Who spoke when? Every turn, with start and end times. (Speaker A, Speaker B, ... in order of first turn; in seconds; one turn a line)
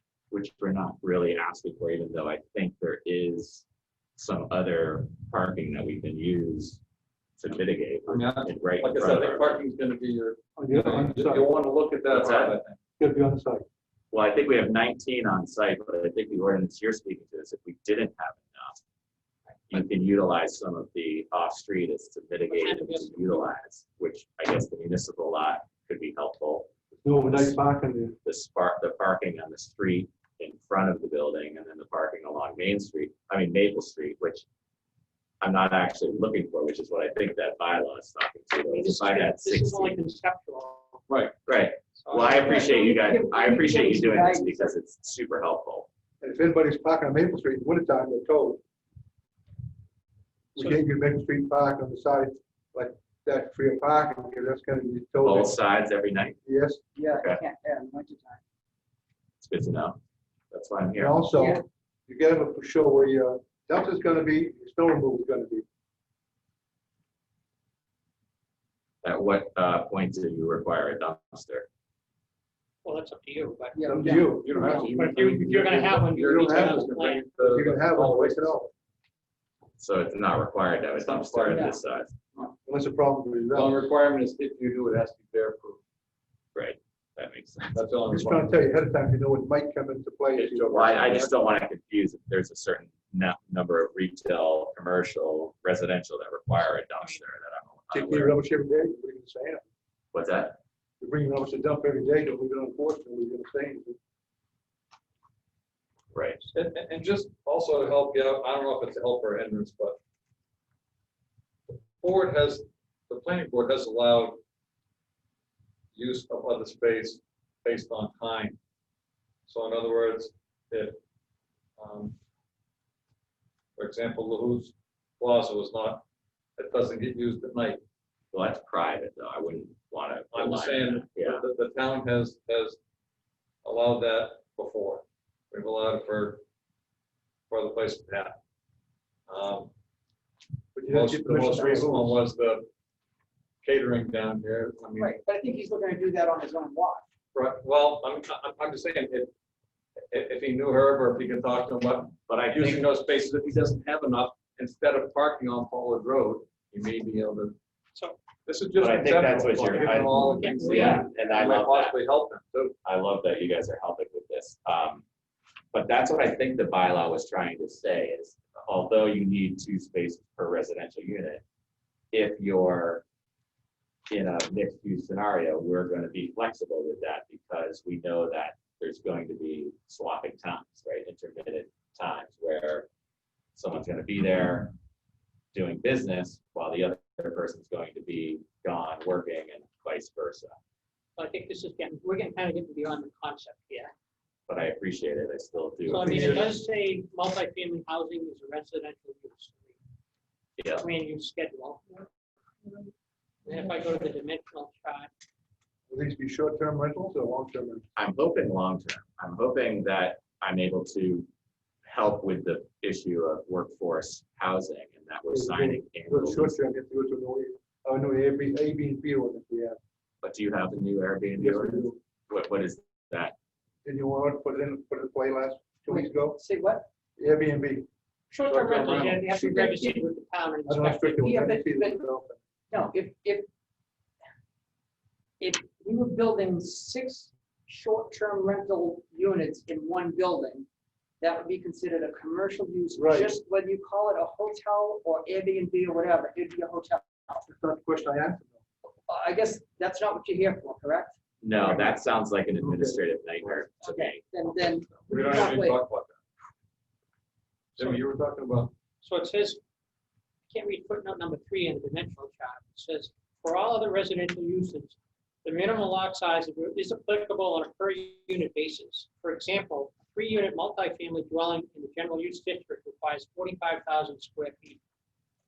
Speaker A: 0.3-3.6
Speaker A: 4.2-6.8
Speaker A: 7.4-9.6
Speaker B: 8.1-12.8
Speaker C: 10.6-11.4
Speaker A: 12.1-12.6
Speaker C: 13.0-13.7
Speaker A: 14.1-18.8
Speaker A: 19.7-27.5
Speaker D: 22.5-23.5
Speaker C: 27.0-28.2
Speaker A: 28.2-34.5
Speaker A: 35.4-40.0
Speaker D: 38.7-41.0
Speaker B: 41.1-41.3
Speaker A: 41.5-45.9
Speaker D: 42.0-42.7
Speaker E: 42.4-44.8
Speaker C: 46.2-48.6
Speaker C: 50.5-55.5
Speaker A: 55.2-56.4
Speaker C: 56.5-56.8
Speaker E: 57.0-58.4
Speaker A: 57.1-57.4
Speaker A: 59.4-60.0
Speaker A: 60.5-61.3
Speaker C: 61.0-65.6
Speaker E: 61.3-61.6
Speaker A: 69.0-71.7
Speaker D: 72.8-74.1
Speaker E: 73.7-74.9
Speaker C: 73.8-74.8
Speaker B: 74.1-78.7
Speaker D: 74.6-77.2
Speaker C: 76.1-78.7
Speaker A: 79.8-82.2
Speaker B: 81.0-81.8
Speaker E: 81.5-81.8
Speaker C: 82.6-83.8
Speaker B: 83.5-85.8
Speaker A: 86.5-87.8
Speaker B: 87.7-88.6
Speaker C: 88.1-91.3
Speaker B: 90.3-91.3
Speaker A: 90.6-98.4
Speaker D: 96.9-97.2
Speaker C: 97.9-99.6
Speaker A: 100.1-100.6
Speaker C: 101.0-104.0
Speaker A: 106.1-106.5
Speaker B: 106.5-110.0
Speaker B: 111.7-114.4
Speaker B: 115.9-118.6
Speaker B: 119.5-121.0
Speaker B: 121.8-122.2
Speaker B: 123.8-126.0
Speaker B: 126.6-127.8
Speaker A: 128.3-131.4
Speaker B: 130.3-132.8
Speaker B: 133.6-136.4
Speaker B: 137.5-138.4
Speaker B: 139.3-139.7
Speaker C: 140.7-142.2
Speaker B: 140.9-142.7
Speaker B: 143.6-145.1
Speaker E: 145.0-147.0
Speaker B: 147.3-149.3
Speaker B: 150.1-157.6
Speaker A: 152.3-152.9
Speaker B: 158.4-162.7
Speaker A: 158.8-162.0
Speaker D: 160.2-161.0
Speaker A: 162.8-165.0
Speaker A: 165.7-171.4
Speaker A: 172.1-173.0
Speaker A: 174.1-182.9
Speaker A: 183.6-184.7
Speaker A: 185.5-190.6
Speaker D: 191.2-193.9
Speaker A: 194.5-196.5
Speaker C: 195.9-196.5
Speaker D: 195.9-199.8
Speaker A: 200.6-200.9
Speaker D: 200.8-202.1
Speaker D: 203.4-205.1
Speaker C: 205.9-207.8
Speaker A: 207.9-211.3
Speaker A: 211.8-216.5
Speaker C: 215.3-219.8
Speaker A: 220.2-223.3
Speaker C: 221.4-222.0
Speaker C: 223.8-226.4
Speaker E: 225.9-226.9
Speaker C: 227.2-227.9
Speaker D: 228.3-231.2
Speaker C: 228.4-229.3
Speaker E: 229.3-230.0
Speaker C: 230.7-232.4
Speaker E: 231.2-232.0
Speaker E: 232.7-233.4
Speaker E: 235.4-240.7
Speaker E: 241.2-247.5
Speaker C: 242.9-243.4
Speaker C: 247.5-248.6
Speaker E: 249.1-251.2
Speaker A: 251.4-255.1
Speaker C: 251.6-252.0
Speaker C: 252.6-253.0
Speaker E: 253.8-255.8
Speaker B: 255.1-256.2
Speaker B: 257.8-258.7
Speaker D: 259.0-259.6
Speaker D: 260.5-274.8